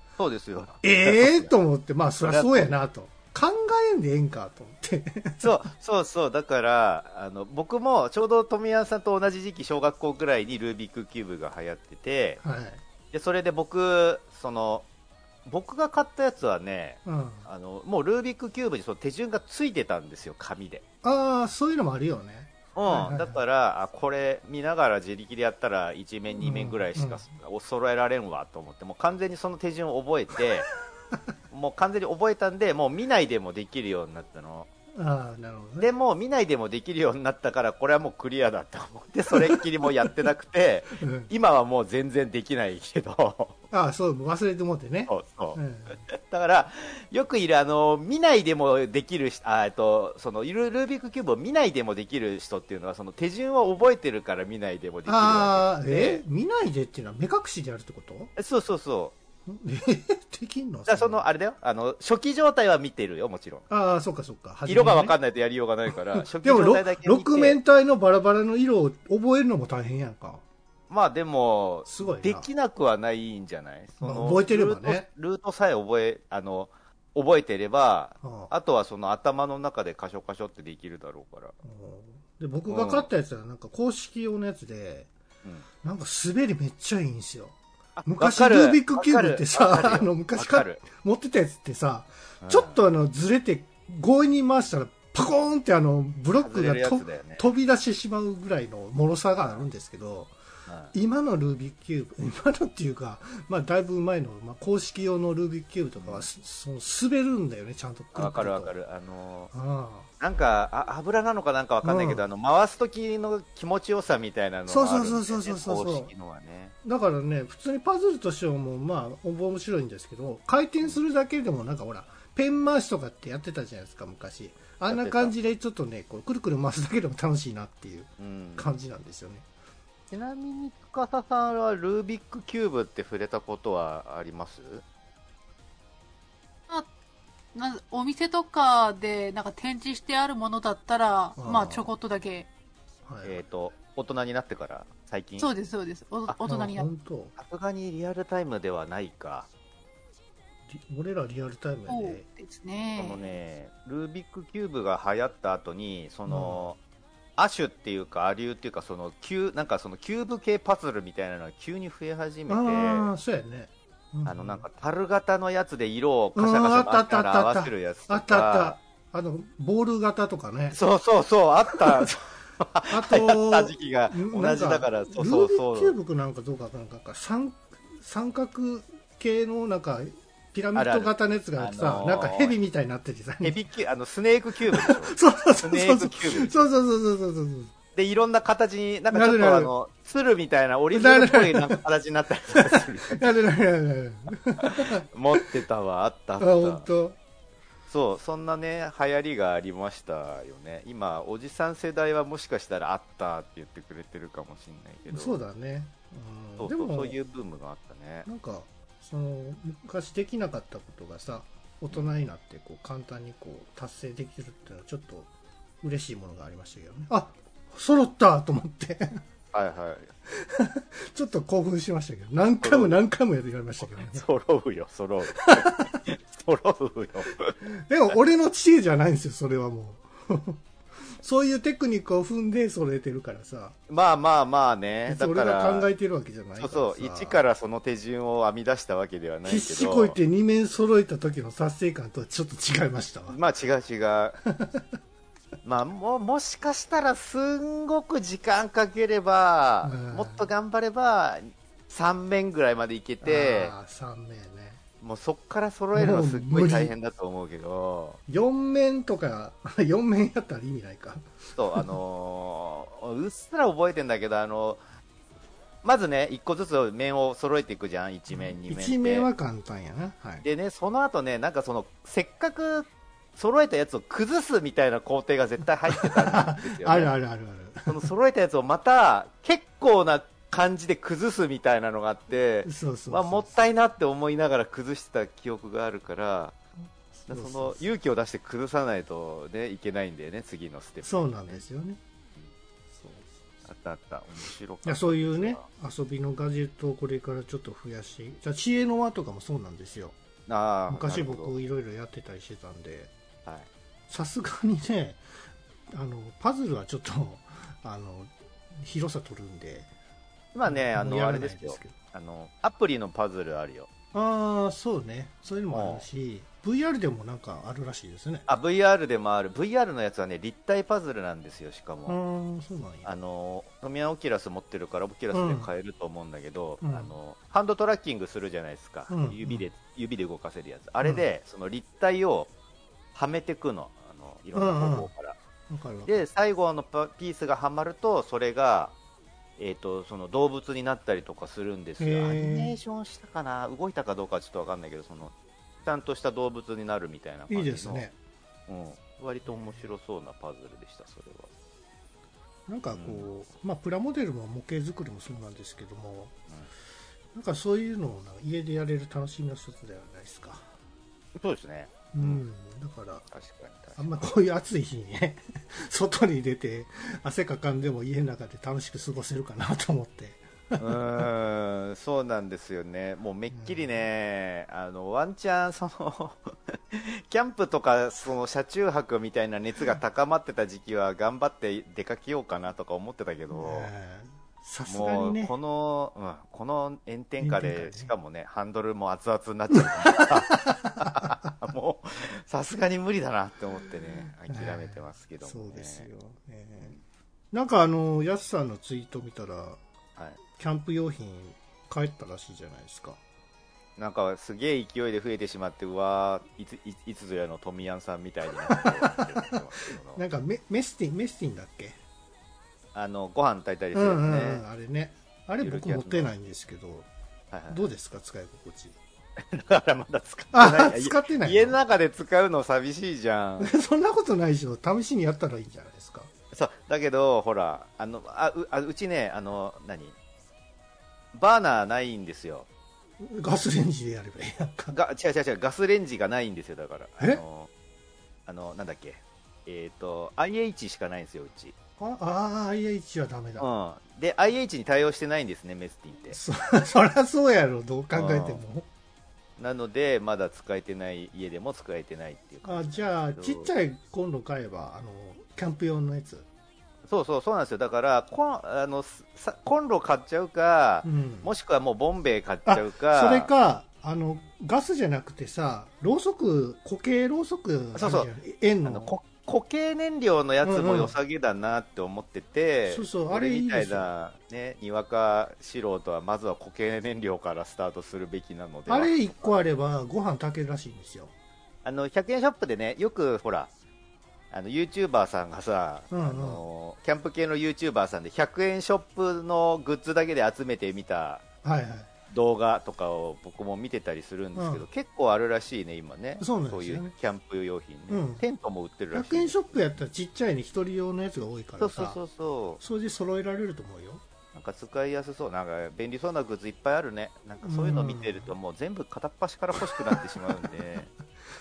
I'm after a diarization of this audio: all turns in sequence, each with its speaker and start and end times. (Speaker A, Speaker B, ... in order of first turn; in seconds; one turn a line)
Speaker A: 0.2-1.5
Speaker B: 0.8-5.5
Speaker A: 2.2-2.8
Speaker A: 5.4-12.4
Speaker B: 12.4-12.8
Speaker A: 13.1-14.9
Speaker A: 15.5-20.8
Speaker B: 17.1-17.5
Speaker B: 21.0-23.4
Speaker A: 22.8-30.7
Speaker B: 26.4-27.3
Speaker A: 31.5-34.7
Speaker B: 34.9-35.9
Speaker A: 35.8-43.6
Speaker B: 39.3-39.6
Speaker B: 40.9-41.3
Speaker B: 43.7-46.0
Speaker A: 45.1-56.2
Speaker B: 55.1-58.3
Speaker A: 58.4-59.1
Speaker B: 59.5-61.2
Speaker A: 60.9-63.7
Speaker B: 63.7-65.2
Speaker A: 64.7-67.6
Speaker B: 66.2-70.4
Speaker A: 70.9-81.5
Speaker B: 71.9-72.5
Speaker B: 74.0-75.1
Speaker B: 78.2-78.5
Speaker B: 81.6-85.1
Speaker A: 82.7-83.1
Speaker B: 85.8-87.5
Speaker A: 88.0-90.8
Speaker B: 88.1-100.3
Speaker A: 92.4-92.8
Speaker A: 96.4-97.5
Speaker A: 100.7-100.9
Speaker B: 100.9-108.7
Speaker A: 106.0-106.3
Speaker A: 108.2-109.5
Speaker B: 109.5-110.1
Speaker A: 110.2-116.8
Speaker B: 111.8-112.2
Speaker B: 114.7-116.1
Speaker B: 116.8-129.5
Speaker A: 124.9-125.3
Speaker A: 128.2-128.7
Speaker A: 130.1-134.8
Speaker C: 137.5-142.5
Speaker B: 141.4-141.9
Speaker B: 143.1-143.4
Speaker A: 143.2-145.5
Speaker C: 145.4-146.9
Speaker B: 146.4-147.3
Speaker A: 147.4-149.5
Speaker B: 150.7-152.2
Speaker C: 151.9-153.3
Speaker A: 153.0-156.8
Speaker B: 156.3-156.7
Speaker A: 157.4-163.1
Speaker B: 162.5-164.7
Speaker A: 164.3-168.8
Speaker B: 166.3-170.8
Speaker A: 170.7-175.9
Speaker B: 171.7-172.1
Speaker B: 172.9-183.6
Speaker A: 180.8-182.6
Speaker A: 183.4-186.7
Speaker B: 184.7-187.7
Speaker A: 187.9-193.3
Speaker B: 189.1-189.7
Speaker B: 190.9-191.8
Speaker B: 192.6-195.4
Speaker A: 194.6-196.9
Speaker B: 196.4-197.2
Speaker A: 197.9-205.4
Speaker B: 205.1-207.2
Speaker A: 206.6-208.3
Speaker B: 208.3-215.3
Speaker B: 215.8-219.2
Speaker A: 219.5-220.1
Speaker B: 220.3-224.3
Speaker A: 222.6-223.0
Speaker A: 223.8-227.6
Speaker B: 225.4-226.0
Speaker B: 227.7-230.6
Speaker B: 231.2-233.8
Speaker A: 233.9-235.9
Speaker B: 235.1-237.4
Speaker A: 236.6-240.2
Speaker B: 239.4-243.4
Speaker A: 243.3-244.4
Speaker B: 244.5-244.9
Speaker A: 245.6-253.7
Speaker B: 249.8-250.5
Speaker B: 253.2-254.8
Speaker A: 255.0-258.2
Speaker B: 255.9-256.9
Speaker B: 258.3-261.9
Speaker A: 261.6-264.8
Speaker A: 265.8-269.3
Speaker B: 268.3-270.4
Speaker A: 270.4-277.1
Speaker B: 275.9-278.1
Speaker A: 277.9-286.6
Speaker B: 282.6-283.7
Speaker B: 287.1-287.9
Speaker A: 287.3-291.6
Speaker B: 291.0-292.0
Speaker B: 293.0-293.4
Speaker A: 293.6-295.7
Speaker B: 294.9-300.1
Speaker A: 300.5-301.5
Speaker B: 300.9-303.1
Speaker B: 304.1-305.2
Speaker B: 305.9-309.9
Speaker A: 310.5-313.9
Speaker B: 310.7-311.9
Speaker B: 314.1-318.5
Speaker A: 315.7-316.1
Speaker A: 318.5-322.2
Speaker B: 322.1-323.1
Speaker A: 323.1-332.5
Speaker B: 325.3-325.7
Speaker B: 326.8-327.1
Speaker B: 329.1-329.7
Speaker A: 333.1-335.4
Speaker B: 334.5-335.1
Speaker B: 335.7-336.2
Speaker A: 336.1-338.9
Speaker A: 339.6-348.1
Speaker B: 342.0-342.8
Speaker B: 347.5-348.1
Speaker A: 348.7-351.5
Speaker B: 352.7-356.3
Speaker A: 352.9-353.3
Speaker B: 357.3-360.7
Speaker A: 361.4-362.4
Speaker B: 362.1-363.3
Speaker A: 363.3-364.3
Speaker B: 364.0-371.2
Speaker A: 370.8-383.9
Speaker B: 373.5-374.0
Speaker B: 383.5-385.6
Speaker A: 384.9-396.1
Speaker B: 387.4-388.1
Speaker B: 389.9-391.3
Speaker B: 394.5-397.0
Speaker B: 397.5-399.8
Speaker B: 400.6-403.2
Speaker A: 404.0-410.2
Speaker B: 408.6-409.5
Speaker B: 410.1-412.0
Speaker A: 412.9-414.6
Speaker B: 413.9-417.1
Speaker A: 415.6-416.3
Speaker A: 417.5-417.9
Speaker B: 417.7-419.0
Speaker A: 419.4-423.7
Speaker B: 420.5-421.8
Speaker B: 423.6-426.3
Speaker A: 426.5-430.2
Speaker A: 431.3-432.7
Speaker B: 433.2-434.9
Speaker A: 434.9-437.7
Speaker A: 438.5-441.8
Speaker B: 442.0-443.7
Speaker A: 443.6-446.4
Speaker B: 446.3-448.9
Speaker A: 448.1-448.6
Speaker A: 449.6-453.7
Speaker B: 452.6-456.5
Speaker A: 457.1-463.5
Speaker B: 461.0-461.5
Speaker B: 462.7-469.1
Speaker A: 467.9-468.3
Speaker A: 468.9-479.5
Speaker B: 470.6-471.1
Speaker B: 472.9-474.1
Speaker B: 478.9-481.3
Speaker A: 481.9-483.7
Speaker A: 484.5-491.4
Speaker B: 486.1-486.6
Speaker B: 491.6-492.1
Speaker A: 492.3-499.7
Speaker B: 494.6-494.9
Speaker B: 496.4-497.1
Speaker B: 498.1-498.4
Speaker B: 499.1-502.2
Speaker A: 501.8-502.8
Speaker B: 502.8-504.2
Speaker A: 504.5-511.1
Speaker B: 507.6-508.5